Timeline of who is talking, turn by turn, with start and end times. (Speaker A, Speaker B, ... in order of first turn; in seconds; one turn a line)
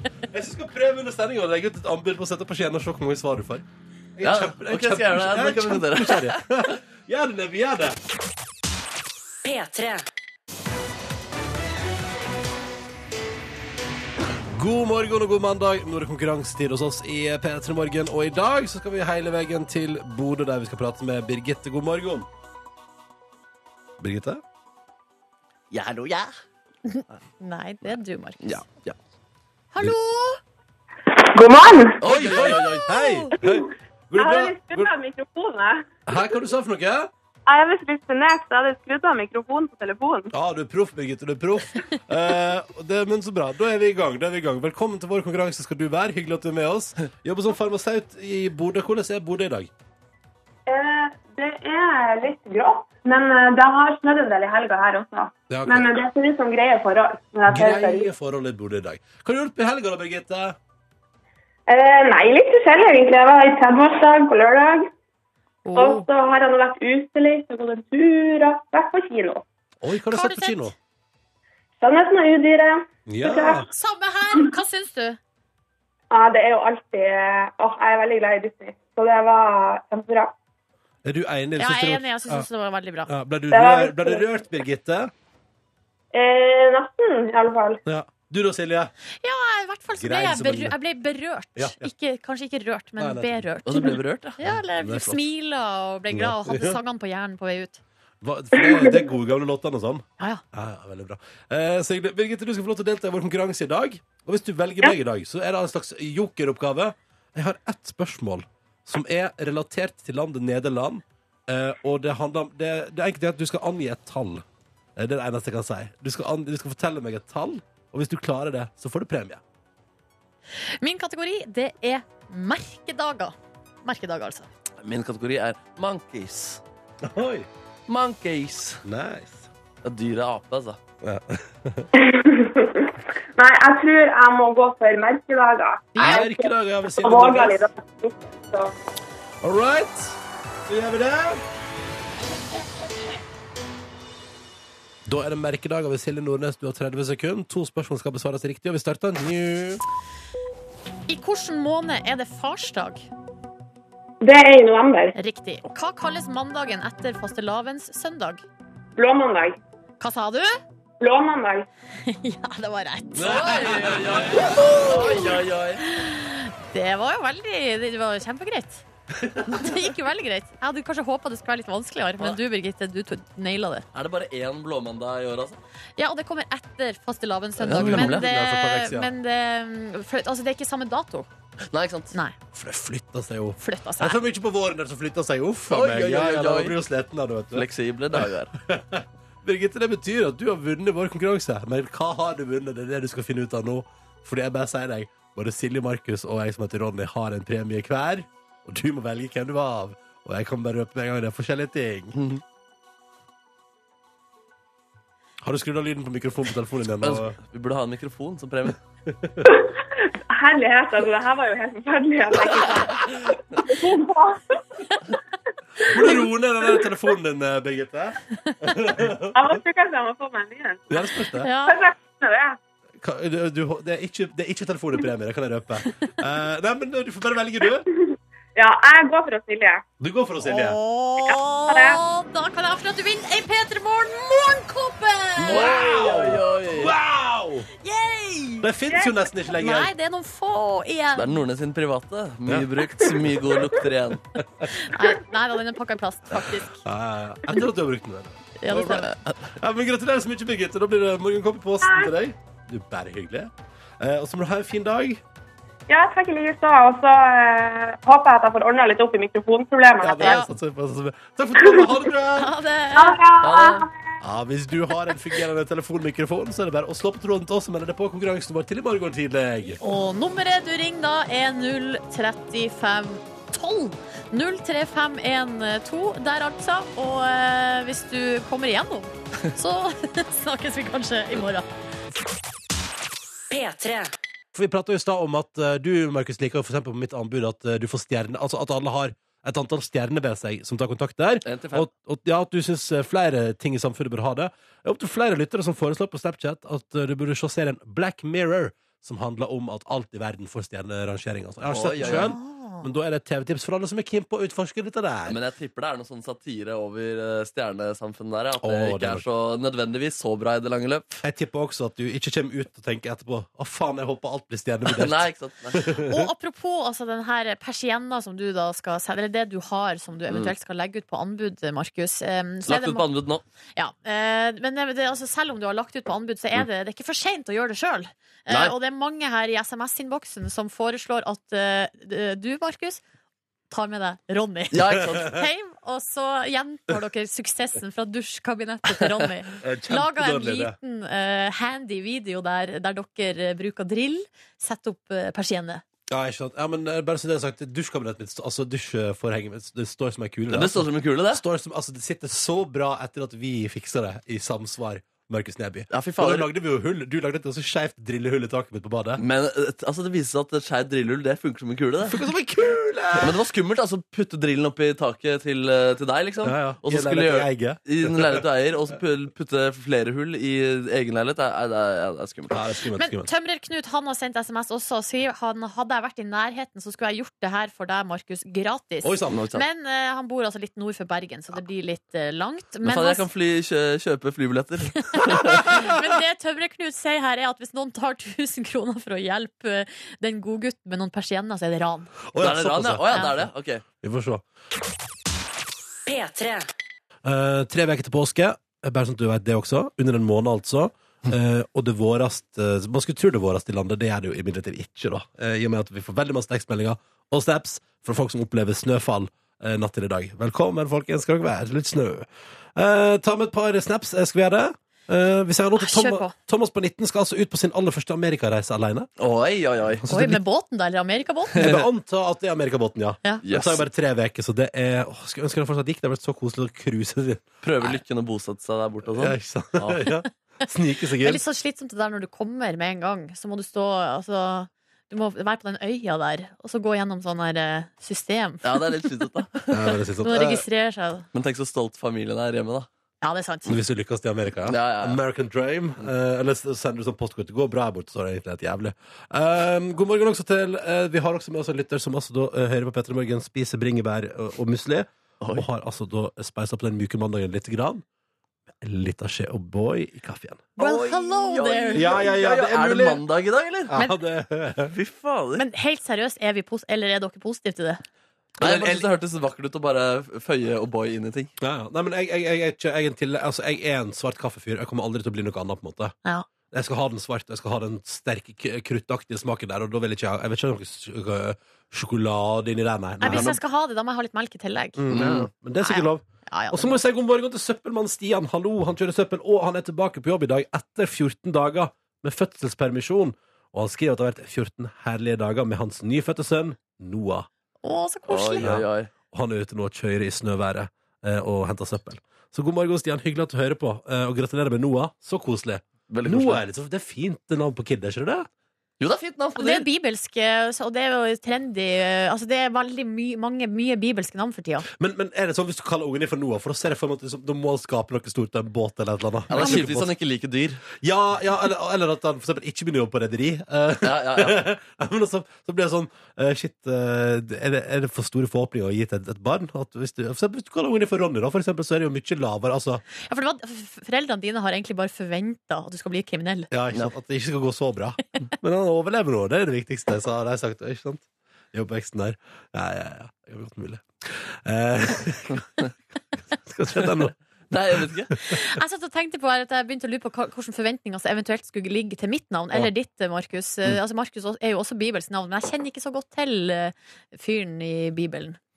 Speaker A: 0.3-3.6
Speaker A: 4.2-8.0
Speaker B: 4.2-6.4
Speaker C: 9.4-10.1
Speaker A: 14.5-22.3
Speaker A: 24.0-24.4
Speaker B: 25.7-26.3
Speaker D: 26.9-28.6
Speaker B: 28.4-28.9
Speaker D: 29.7-30.4
Speaker E: 31.1-32.0
Speaker B: 32.0-32.9
Speaker A: 32.0-34.9
Speaker D: 32.6-33.3
Speaker E: 33.4-36.0
Speaker A: 36.1-37.1
Speaker E: 37.5-40.3
Speaker A: 40.3-49.7
Speaker E: 50.7-58.1
Speaker A: 55.5-55.9
Speaker A: 57.5-60.6
Speaker E: 61.7-64.9
Speaker D: 65.6-66.1
Speaker E: 65.7-69.4
Speaker A: 69.8-70.7
Speaker D: 70.1-70.7
Speaker E: 71.8-73.7
Speaker A: 73.1-73.7
Speaker D: 73.7-75.2
Speaker E: 76.1-80.3
Speaker A: 81.0-82.5
Speaker D: 81.6-83.1
Speaker A: 83.1-85.1
Speaker E: 83.5-84.2
Speaker E: 86.1-87.8
Speaker A: 87.8-88.9
Speaker D: 89.2-97.8
Speaker A: 90.0-90.8
Speaker A: 91.5-91.9
Speaker A: 93.0-93.4
Speaker B: 93.6-94.4
Speaker A: 94.4-95.2
Speaker A: 96.1-96.8
Speaker A: 98.2-114.4
Speaker E: 98.6-98.9
Speaker A: 115.0-119.4
Speaker D: 120.8-124.5
Speaker B: 124.8-126.6
Speaker A: 127.0-127.5
Speaker B: 127.9-128.8
Speaker A: 128.8-129.5
Speaker B: 129.8-130.8
Speaker A: 131.0-131.9
Speaker E: 131.9-138.7
Speaker D: 135.9-136.2
Speaker A: 136.0-137.6
Speaker A: 139.4-141.4
Speaker A: 145.1-149.8
Speaker D: 151.1-153.1
Speaker E: 154.2-155.1
Speaker D: 155.1-158.4
Speaker E: 158.9-159.6
Speaker D: 160.0-160.6
Speaker E: 161.0-161.7
Speaker D: 162.0-163.7
Speaker A: 163.1-164.8
Speaker B: 163.2-165.8
Speaker D: 164.5-168.8
Speaker A: 169.2-169.8
Speaker D: 169.4-173.8
Speaker B: 173.9-175.6
Speaker D: 176.0-181.3
Speaker B: 177.6-178.2
Speaker A: 177.7-179.1
Speaker B: 181.7-182.2
Speaker A: 182.5-202.2
Speaker D: 183.6-184.2
Speaker B: 185.7-186.8
Speaker B: 187.5-188.5
Speaker B: 202.1-202.4
Speaker A: 205.4-207.3
Speaker B: 207.0-208.8
Speaker A: 209.1-209.5
Speaker E: 209.4-214.6
Speaker E: 215.8-216.2
Speaker A: 215.8-219.6
Speaker E: 219.3-220.9
Speaker A: 220.9-221.5
Speaker D: 221.4-221.8
Speaker E: 221.7-222.6
Speaker A: 223.0-227.9
Speaker E: 227.9-229.8
Speaker A: 230.0-230.8
Speaker D: 230.4-236.1
Speaker E: 231.2-232.0
Speaker B: 235.4-236.9
Speaker A: 235.4-237.7
Speaker D: 237.8-238.7
Speaker A: 238.6-239.9
Speaker D: 239.5-241.4
Speaker B: 241.1-244.2
Speaker A: 242.4-243.5
Speaker A: 244.3-244.7
Speaker D: 244.7-246.8
Speaker A: 246.8-255.2
Speaker D: 248.6-249.2
Speaker B: 248.8-249.1
Speaker E: 251.8-252.1
Speaker E: 255.9-260.4
Speaker A: 260.0-262.5
Speaker D: 260.2-260.4
Speaker E: 261.6-261.9
Speaker D: 262.4-263.2
Speaker E: 262.9-263.9
Speaker B: 263.4-263.9
Speaker A: 264.2-269.8
Speaker D: 269.8-281.7
Speaker C: 283.5-284.1
Speaker A: 284.5-305.4
Speaker B: 291.4-291.9
Speaker B: 301.7-302.3
Speaker D: 302.0-302.9
Speaker B: 305.3-311.2
Speaker A: 308.6-309.2
Speaker A: 311.2-316.3
Speaker B: 314.9-315.8
Speaker D: 316.0-323.1
Speaker B: 320.3-320.5
Speaker B: 322.6-323.4
Speaker D: 323.8-333.0
Speaker B: 328.5-328.7
Speaker D: 333.7-345.8
Speaker B: 334.7-335.4
Speaker A: 339.6-340.8
Speaker A: 346.1-359.2
Speaker B: 350.5-351.4
Speaker B: 355.9-356.5
Speaker B: 359.2-362.2
Speaker A: 362.0-363.4
Speaker B: 363.2-372.6
Speaker A: 366.4-368.4
Speaker A: 372.5-373.3
Speaker D: 373.0-383.2
Speaker A: 379.0-379.4
Speaker B: 379.3-379.6
Speaker B: 382.8-385.8
Speaker D: 385.1-392.1
Speaker A: 392.3-393.4
Speaker B: 392.4-393.8
Speaker D: 393.1-393.4
Speaker A: 394.0-394.4
Speaker C: 396.1-396.7
Speaker A: 397.2-419.1
Speaker D: 415.8-416.3
Speaker B: 419.2-420.0
Speaker A: 419.9-420.4
Speaker D: 420.1-421.7
Speaker B: 421.5-421.8
Speaker A: 421.6-428.0
Speaker B: 423.4-423.8
Speaker B: 427.6-430.1
Speaker A: 429.1-431.4
Speaker D: 431.2-439.1
Speaker B: 438.6-439.9
Speaker A: 439.7-440.6
Speaker D: 440.2-441.3
Speaker B: 441.3-442.9
Speaker D: 443.2-443.7
Speaker A: 443.7-458.0
Speaker B: 444.7-445.2
Speaker A: 458.8-460.7
Speaker B: 460.8-463.9
Speaker D: 460.8-462.3
Speaker A: 461.9-463.2
Speaker A: 463.9-464.9
Speaker B: 464.9-465.6
Speaker D: 465.6-468.0
Speaker A: 468.6-469.1
Speaker B: 468.6-471.5
Speaker A: 471.6-476.1
Speaker A: 476.7-483.5
Speaker B: 483.2-483.6
Speaker D: 483.2-485.1
Speaker A: 484.9-497.5
Speaker B: 485.1-485.5
Speaker D: 485.8-487.0
Speaker D: 497.8-498.7
Speaker B: 498.3-499.1
Speaker A: 498.6-508.5
Speaker B: 506.1-506.6
Speaker B: 509.0-509.9
Speaker D: 509.6-514.9
Speaker A: 514.9-520.1
Speaker B: 519.5-520.8
Speaker D: 519.6-519.8
Speaker A: 520.9-533.0
Speaker B: 524.0-524.6
Speaker D: 533.2-536.7
Speaker A: 536.7-545.7
Speaker A: 546.5-547.4
Speaker B: 547.7-548.3
Speaker A: 547.9-548.6
Speaker D: 548.4-558.6